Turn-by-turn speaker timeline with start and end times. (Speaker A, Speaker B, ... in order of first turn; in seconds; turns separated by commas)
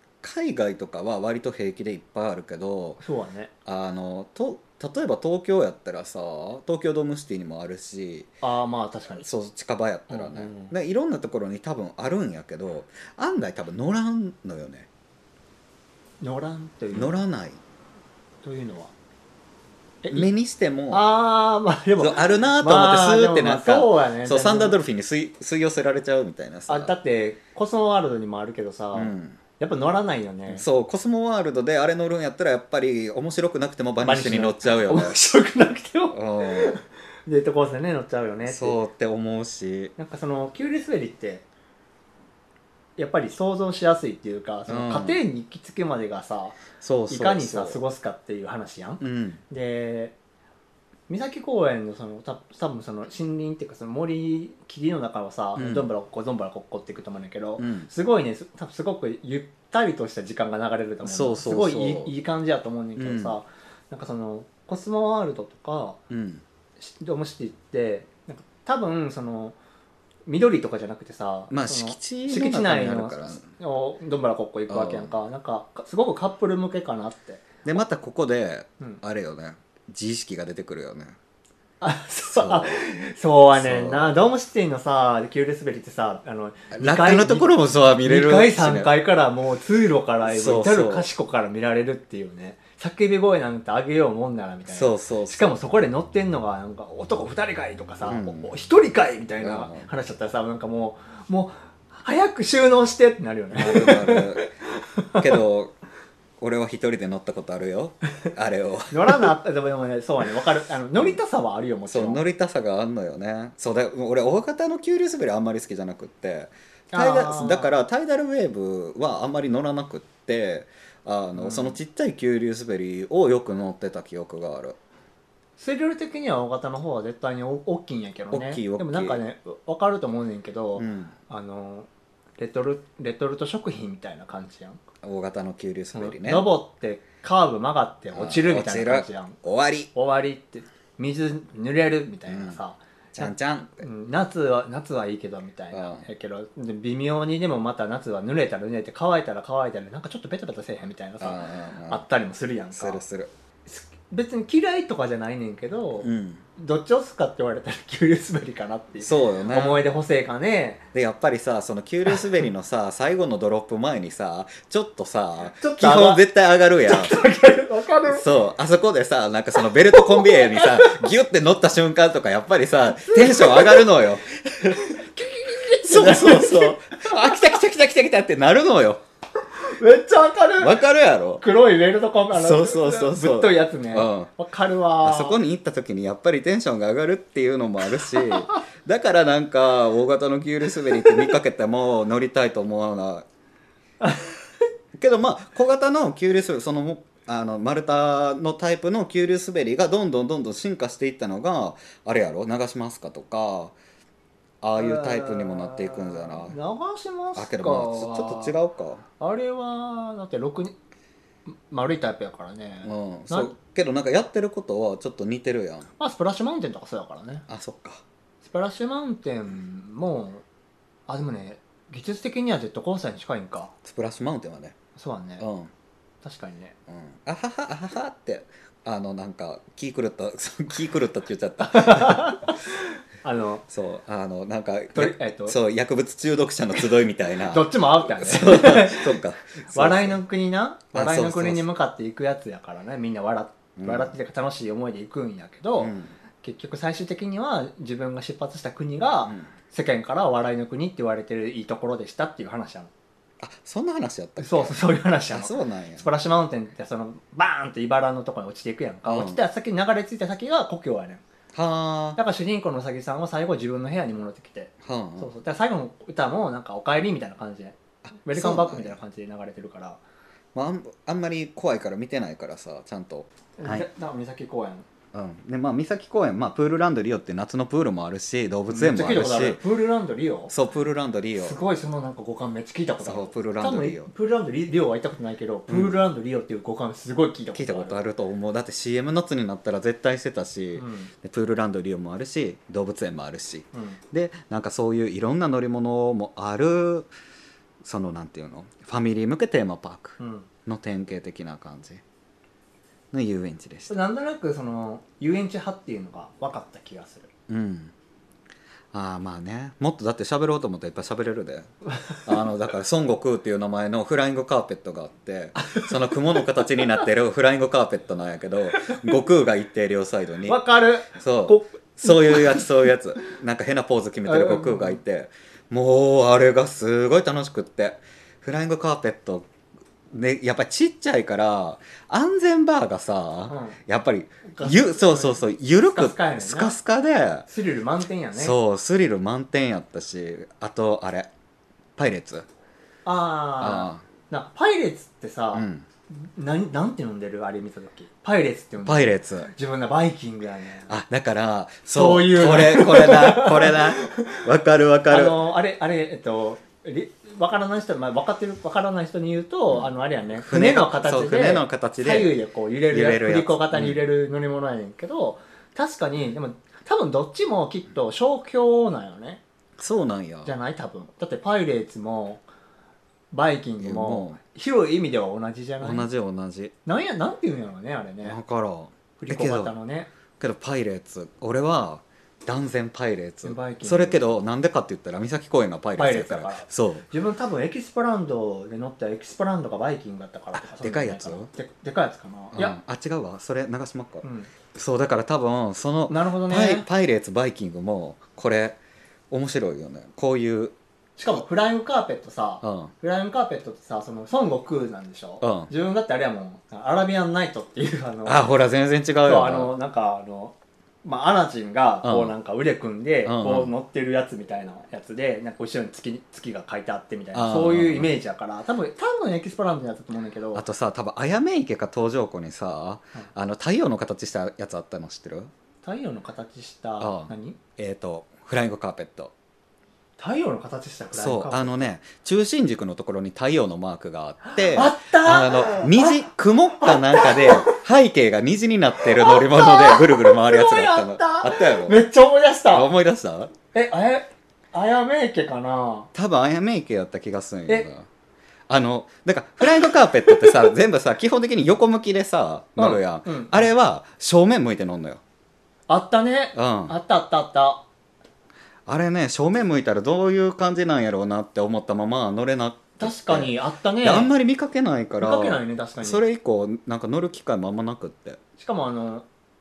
Speaker A: 0.2-3.0, Speaker B: 3.0-3.5, Speaker A: 3.6-8.3, Speaker B: 8.4-9.3, Speaker A: 9.2-14.9, Speaker B: 10.1-10.7, Speaker B: 16.2-17.2, Speaker A: 16.9-17.6, Speaker B: 18.4-18.9, Speaker B: 20.0-20.3, Speaker A: 20.1-21.0, Speaker B: 20.9-24.8, Speaker A: 22.0-26.9, Speaker B: 26.7-30.6, Speaker A: 28.9-29.4, Speaker A: 30.5-35.1, Speaker B: 34.0-38.8, Speaker A: 36.1-36.8, Speaker A: 38.4-39.9, Speaker B: 40.0-41.4, Speaker B: 43.0-50.1, Speaker A: 44.7-45.2, Speaker A: 46.8-47.8, Speaker A: 49.0-49.4, Speaker B: 51.1-66.0, Speaker A: 55.5-55.9, Speaker A: 57.6-57.9, Speaker A: 61.0-62.1, Speaker A: 63.0-63.4, Speaker A: 66.1-66.4, Speaker B: 66.8-69.6, Speaker B: 70.3-77.5, Speaker A: 71.5-73.5, Speaker A: 74.7-75.1, Speaker A: 77.6-81.2, Speaker B: 81.8-87.5, Speaker A: 82.3-82.8, Speaker A: 83.5-84.1, Speaker A: 86.7-88.9, Speaker B: 88.0-105.4, Speaker A: 90.2-91.1, Speaker A: 94.7-95.5, Speaker A: 98.0-98.5, Speaker A: 99.4-99.9, Speaker A: 103.5-104.5, Speaker A: 105.2-105.7, Speaker A: 106.4-109.3, Speaker B: 108.9-112.2, Speaker A: 111.9-124.8, Speaker B: 116.9-117.7, Speaker B: 121.3-121.8, Speaker B: 125.6-134.8, Speaker A: 128.3-129.2, Speaker A: 130.8-131.1, Speaker A: 135.0-136.5, Speaker B: 135.9-139.4, Speaker A: 138.1-139.9, Speaker B: 139.9-153.0, Speaker A: 142.3-142.6, Speaker A: 143.1-143.8, Speaker A: 145.7-146.1, Speaker A: 151.2-152.0, Speaker A: 152.7-153.3, Speaker B: 153.7-160.8, Speaker A: 156.0-156.4, Speaker A: 159.0-159.8, Speaker A: 160.9-167.1, Speaker B: 165.6-166.2, Speaker B: 166.8-168.2, Speaker A: 168.1-175.0, Speaker B: 169.8-171.0, Speaker B: 173.1-173.8, Speaker B: 174.7-177.3, Speaker A: 175.8-179.0, Speaker B: 179.6-180.8, Speaker A: 180.6-181.4, Speaker B: 181.4-185.4, Speaker A: 182.3-184.3, Speaker A: 185.0-193.3, Speaker B: 188.1-188.6, Speaker B: 194.0-194.3, Speaker A: 194.9-203.7, Speaker A: 204.6-206.6, Speaker B: 204.8-208.5, Speaker A: 207.3-209.0, Speaker B: 209.2-210.7, Speaker B: 211.4-213.5, Speaker A: 212.8-215.9, Speaker B: 216.0-217.4, Speaker A: 217.5-218.0, Speaker B: 218.4-220.4, Speaker B: 221.1-223.7, Speaker A: 223.8-224.8, Speaker B: 224.9-225.4, Speaker A: 225.4-225.7, Speaker B: 226.2-226.8, Speaker A: 226.9-232.5, Speaker B: 231.6-233.6, Speaker A: 233.7-240.2, Speaker B: 234.9-235.6, Speaker B: 237.4-252.9, Speaker A: 240.9-241.7, Speaker A: 243.8-244.1, Speaker A: 245.8-246.1, Speaker A: 253.4-254.8, Speaker B: 254.4-261.2, Speaker A: 255.3-256.1, Speaker A: 259.1-259.4, Speaker A: 261.5-262.2, Speaker B: 262.1-270.0, Speaker A: 264.8-265.3, Speaker A: 268.3-269.0, Speaker A: 270.5-273.9, Speaker B: 273.6-274.9, Speaker A: 275.1-279.6, Speaker B: 278.7-280.5, Speaker A: 280.5-281.6, Speaker B: 281.4-288.0, Speaker A: 283.0-284.1, Speaker A: 285.7-286.0, Speaker A: 287.5-297.1, Speaker B: 290.7-291.1, Speaker B: 293.7-294.0, Speaker A: 297.8-302.0, Speaker B: 300.2-300.5, Speaker A: 303.1-304.0, Speaker B: 303.9-307.3, Speaker A: 307.5-307.9, Speaker A: 308.9-320.6, Speaker B: 315.6-316.1, Speaker B: 318.8-319.1, Speaker B: 320.5-322.7, Speaker A: 321.1-329.5, Speaker B: 324.2-325.0, Speaker A: 330.1-337.5, Speaker B: 333.5-333.8, Speaker B: 334.5-336.8, Speaker B: 337.5-338.6, Speaker A: 338.3-341.3, Speaker A: 341.9-342.4, Speaker B: 343.0-350.9, Speaker A: 343.6-344.0, Speaker A: 345.5-345.9, Speaker A: 348.9-349.5, Speaker A: 350.9-355.4, Speaker B: 351.9-354.4, Speaker B: 355.1-369.4, Speaker A: 359.7-362.3, Speaker A: 362.9-364.0, Speaker A: 369.8-370.5, Speaker B: 370.4-372.4, Speaker B: 373.3-376.1, Speaker A: 373.8-374.4, Speaker A: 375.8-376.7, Speaker B: 376.8-378.4, Speaker A: 378.2-379.7, Speaker B: 379.2-380.1, Speaker A: 380.4-387.0, Speaker B: 383.4-384.2, Speaker B: 386.0-392.8, Speaker A: 390.5-391.5, Speaker A: 392.5-398.8, Speaker B: 394.2-394.5, Speaker B: 396.1-396.9, Speaker A: 399.3-400.7, Speaker B: 401.2-408.4, Speaker A: 402.6-402.9, Speaker A: 405.4-405.7, Speaker A: 408.2-409.7, Speaker B: 409.2-420.6, Speaker A: 412.0-412.4, Speaker A: 413.2-413.7, Speaker A: 417.3-418.1, Speaker A: 420.5-425.5, Speaker B: 425.8-427.6, Speaker A: 427.0-429.3, Speaker B: 430.2-431.8, Speaker A: 431.1-442.1, Speaker B: 434.4-437.8, Speaker B: 439.1-442.9, Speaker A: 442.7-443.5, Speaker B: 443.7-446.1, Speaker A: 446.1-448.1, Speaker A: 448.7-455.2, Speaker B: 450.3-450.7, Speaker B: 452.8-453.7, Speaker B: 455.9-457.8, Speaker A: 456.5-456.9, Speaker A: 458.9-468.4, Speaker B: 463.0-464.3, Speaker B: 465.2-466.2, Speaker B: 468.6-469.2